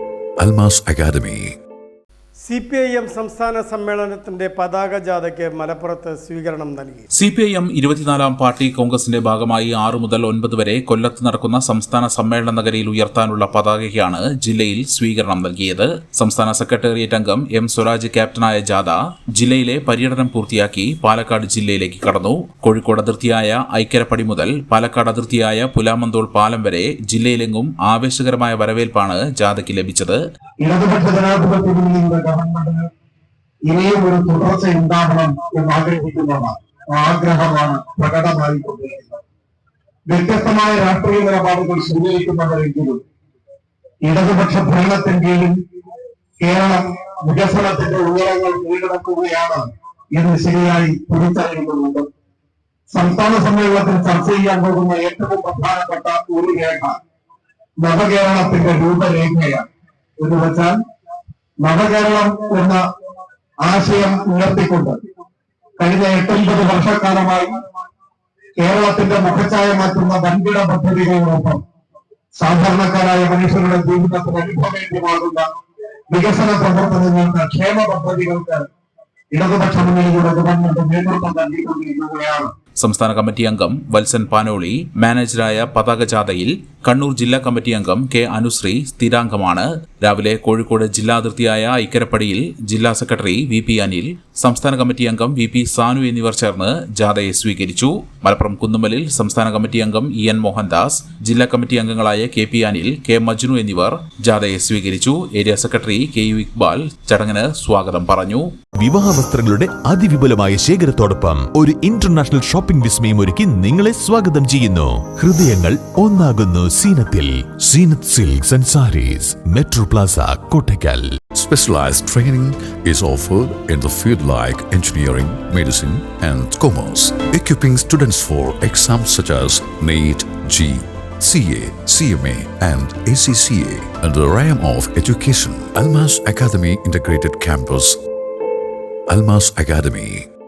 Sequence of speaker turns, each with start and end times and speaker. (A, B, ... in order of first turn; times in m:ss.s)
0:00.4-0:01.6 A
0:02.4-0:07.0 B
0:07.2-0:30.2 C
0:30.6-0:32.9 D
0:33.7-0:39.2 D
0:40.1-0:43.0 D
0:44.0-0:45.6 D
0:46.4-0:52.1 D
0:52.9-0:57.0 D
0:57.8-0:59.7 D
1:00.2-1:00.8 D
1:01.6-1:02.8 D
1:03.6-1:05.0 D
1:05.8-1:07.6 D
1:08.6-1:11.6 D
1:12.4-1:15.5 D
1:16.1-1:18.7 D
1:19.3-1:22.5 D
1:22.8-1:48.5 C
1:48.8-2:01.2 E
2:01.4-2:18.0 A
2:19.1-2:20.2 A